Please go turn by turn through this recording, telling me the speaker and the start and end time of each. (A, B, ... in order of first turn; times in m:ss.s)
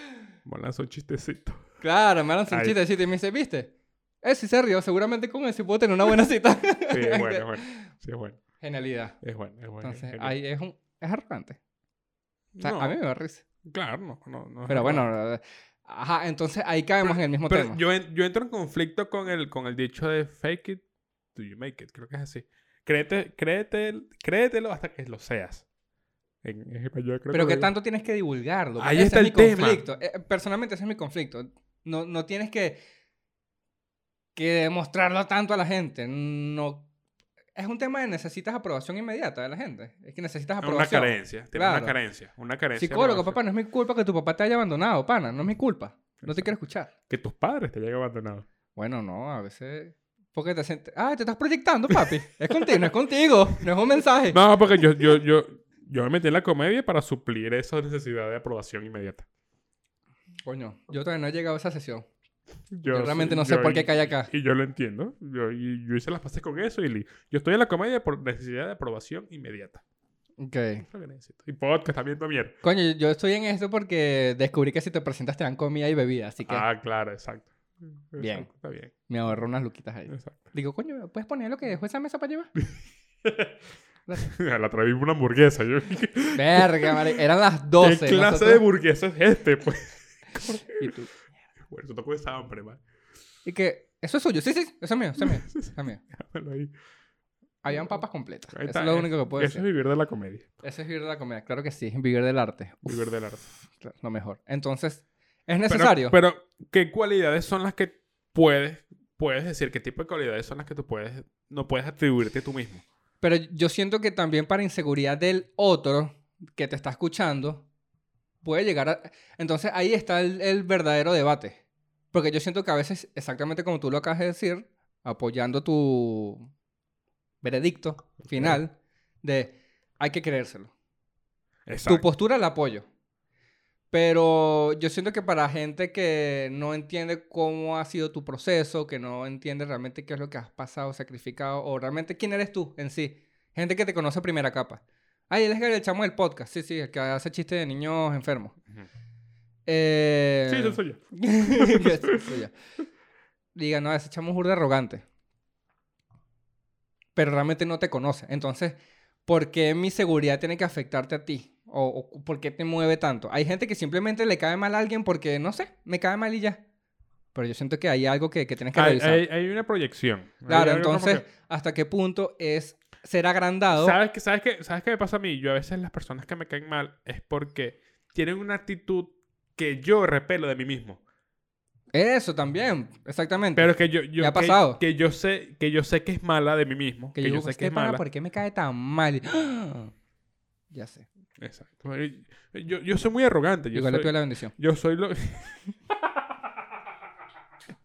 0:00.4-0:01.6 A
0:01.8-0:07.9 B
0:02.5-0:02.8 A
0:06.9-0:08.4 A
0:08.6-0:09.2 B
0:09.2-0:10.3 A
0:09.8-0:11.6 B
0:12.5-0:13.0 A
0:12.6-0:13.4 B
0:13.6-0:15.1 A
0:14.7-0:17.8 B
0:17.0-0:20.8 A
0:21.3-0:25.6 A
0:26.4-0:27.7 A
0:27.3-0:32.8 B
0:28.8-0:29.8 A
0:34.3-0:36.9 B
0:37.5-0:41.9 B
0:40.6-0:43.4 A
0:42.8-0:46.9 B
0:46.2-0:46.5 A
0:47.1-0:48.4 A
0:48.8-0:54.4 B
0:54.3-0:59.2 A
1:00.4-1:02.1 B
1:02.7-1:09.8 A
1:02.9-1:04.3 B
1:10.4-1:10.8 B
1:10.8-1:12.6 A
1:12.6-1:16.6 B
1:16.4-1:18.9 A
1:18.2-1:18.5 B
1:19.1-1:22.5 B
1:20.1-1:20.4 A
1:23.2-1:23.6 A
1:24.2-1:27.2 A
1:26.3-1:28.6 B
1:27.8-1:30.9 A
1:30.7-1:31.1 B
1:31.6-1:32.8 A
1:33.4-1:36.0 B
1:35.2-1:36.7 A
1:37.6-1:39.6 B
1:38.5-1:40.5 A
1:40.6-1:43.1 B
1:42.8-1:43.4 A
1:43.8-1:46.2 B
1:45.7-1:52.8 A
1:53.2-1:57.6 B
1:58.4-2:01.6 B
2:02.1-2:06.5 B
2:07.4-2:10.7 B
2:08.3-2:08.6 A
2:11.7-2:12.1 A
2:11.8-2:12.8 B
2:13.9-2:28.6 B
2:29.6-2:32.5 B
2:30.5-2:32.4 A
2:33.5-2:35.0 B
2:37.2-2:46.6 B
2:47.3-2:49.2 B
2:48.7-2:51.2 A
2:50.5-2:54.0 B
2:53.7-3:01.0 A
3:01.9-3:04.8 B
3:03.5-3:08.0 A
3:07.1-3:09.9 B
3:10.7-3:11.1 B
3:11.4-3:16.2 A
3:13.7-3:14.5 B